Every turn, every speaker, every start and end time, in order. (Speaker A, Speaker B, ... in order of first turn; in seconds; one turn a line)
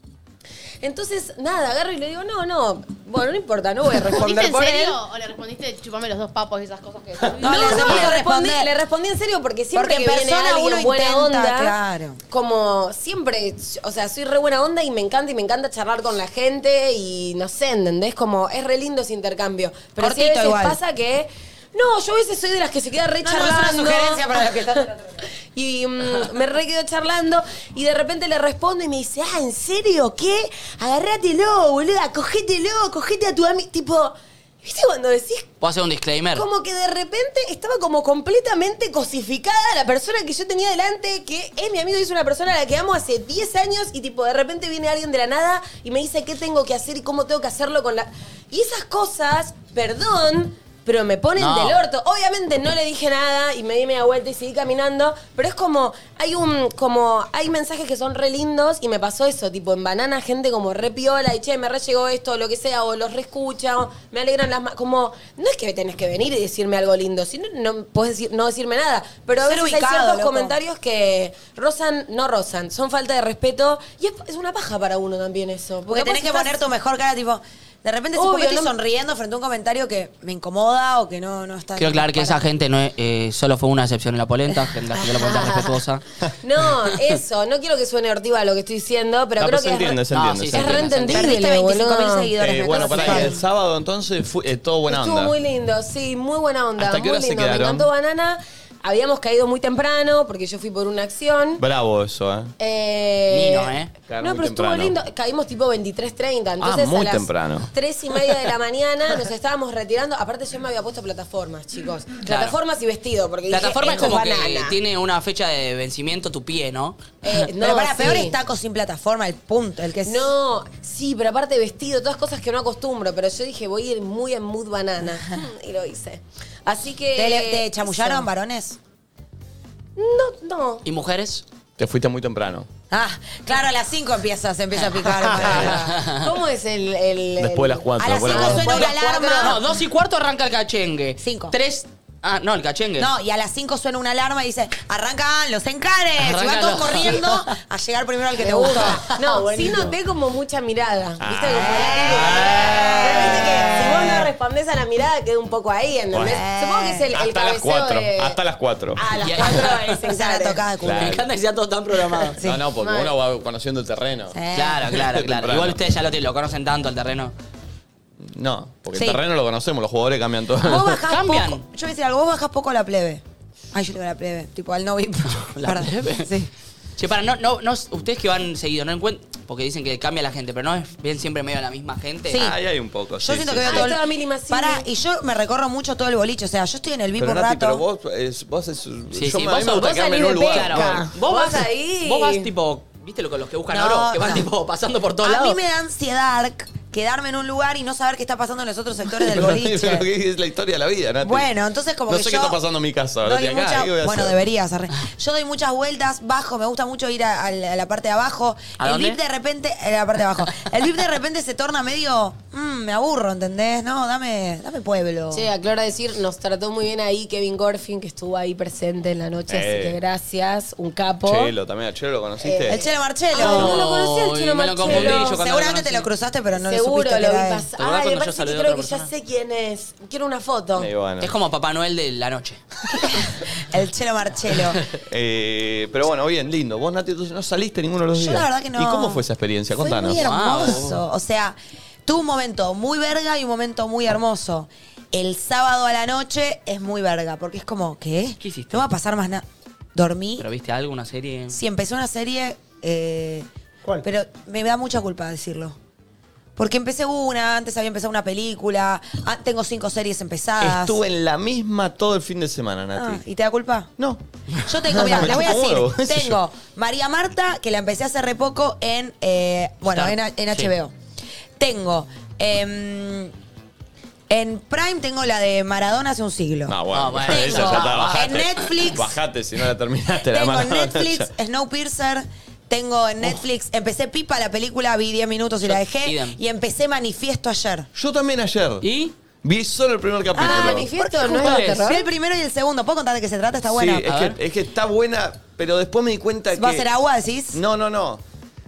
Speaker A: 0.8-5.0
Speaker B: 4.1-8.1
Speaker C: 7.4-8.7
Speaker A: 7.4-11.7
Speaker C: 9.7-12.2
Speaker A: 12.3-24.9
Speaker C: 20.0-20.8
Speaker C: 23.2-25.3
Speaker A: 25.5-35.5
Speaker D: 35.6-36.5
Speaker A: 36.3-76.6
Speaker D: 51.4-51.8
Speaker C: 69.4-70.6
Speaker C: 75.9-82.4
Speaker A: 78.2-78.7
Speaker D: 81.8-86.0
Speaker A: 85.0-85.8
Speaker A: 86.4-93.4
Speaker E: 89.4-91.1
Speaker D: 90.1-91.3
Speaker C: 91.1-93.4
Speaker E: 92.4-95.3
Speaker A: 94.9-101.6
Speaker E: 96.8-97.9
Speaker E: 101.6-102.5
Speaker A: 102.6-114.8
Speaker D: 103.3-103.9
Speaker E: 104.1-105.0
Speaker E: 106.6-107.7
Speaker D: 112.3-112.6
Speaker D: 113.5-117.0
Speaker A: 117.2-118.4
Speaker C: 117.5-120.3
Speaker A: 120.1-128.3
Speaker C: 127.1-128.8
Speaker A: 130.0-130.8
Speaker D: 130.8-131.4
Speaker E: 131.8-132.7
Speaker C: 132.9-136.0
Speaker E: 135.3-135.8
Speaker D: 135.6-136.2
Speaker A: 136.1-139.6
Speaker E: 137.4-138.9
Speaker C: 138.0-139.6
Speaker D: 139.4-143.1
Speaker C: 141.2-141.6
Speaker C: 143.0-149.1
Speaker D: 146.2-147.4
Speaker A: 148.4-158.4
Speaker D: 149.3-149.7
Speaker E: 151.2-154.1
Speaker C: 151.4-154.3
Speaker E: 156.1-156.4
Speaker C: 156.2-157.1
Speaker E: 157.1-159.0
Speaker A: 159.0-160.6
Speaker D: 159.2-159.9
Speaker C: 160.0-161.2
Speaker E: 160.8-161.2
Speaker D: 160.9-162.4
Speaker C: 162.4-162.6
Speaker E: 162.4-164.4
Speaker A: 162.8-163.1
Speaker C: 164.3-164.9
Speaker D: 164.5-167.3
Speaker E: 164.9-165.8
Speaker E: 168.3-171.0
Speaker C: 168.9-169.2
Speaker C: 170.6-173.2
Speaker D: 171.1-171.7
Speaker C: 173.7-176.5
Speaker D: 175.3-176.3
Speaker D: 177.0-182.4
Speaker C: 182.3-182.6
Speaker E: 182.3-183.9
Speaker C: 183.2-187.8
Speaker A: 183.7-184.8
Speaker E: 187.2-191.1
Speaker D: 189.1-190.0
Speaker A: 189.7-192.5
Speaker D: 190.5-195.6
Speaker C: 193.7-194.5
Speaker C: 195.2-200.1
Speaker E: 199.2-201.5
Speaker C: 201.2-202.6
Speaker E: 202.1-204.4
Speaker C: 203.2-215.5
Speaker D: 208.8-209.2
Speaker A: 215.3-221.5
Speaker E: 219.5-220.0
Speaker E: 221.2-222.8
Speaker A: 222.4-222.8
Speaker C: 222.7-223.8
Speaker A: 223.3-225.4
Speaker D: 223.4-226.1
Speaker C: 224.8-227.7
Speaker A: 226.6-230.9
Speaker D: 227.8-229.1
Speaker E: 230.8-231.3
Speaker D: 231.2-232.6
Speaker C: 233.0-234.8
Speaker E: 235.1-240.7
Speaker C: 238.1-250.5
Speaker D: 240.1-241.0
Speaker D: 248.4-248.8
Speaker D: 250.4-251.6
Speaker C: 251.5-253.5
Speaker C: 254.0-255.8
Speaker C: 256.6-261.0
Speaker E: 260.6-263.2
Speaker C: 262.9-263.9
Speaker E: 264.0-266.4
Speaker C: 264.6-270.9
Speaker D: 269.9-270.7
Speaker C: 271.6-273.3
Speaker C: 274.3-279.2
Speaker E: 276.7-281.3
Speaker D: 276.9-278.6
Speaker C: 280.2-287.9
Speaker D: 285.6-286.4
Speaker E: 287.9-288.9
Speaker D: 288.8-289.1
Speaker E: 289.4-290.9
Speaker C: 290.3-294.1
Speaker A: 290.4-292.1
Speaker D: 291.3-291.9
Speaker E: 293.7-296.9
Speaker D: 294.1-294.4
Speaker C: 296.5-297.6
Speaker E: 297.5-298.2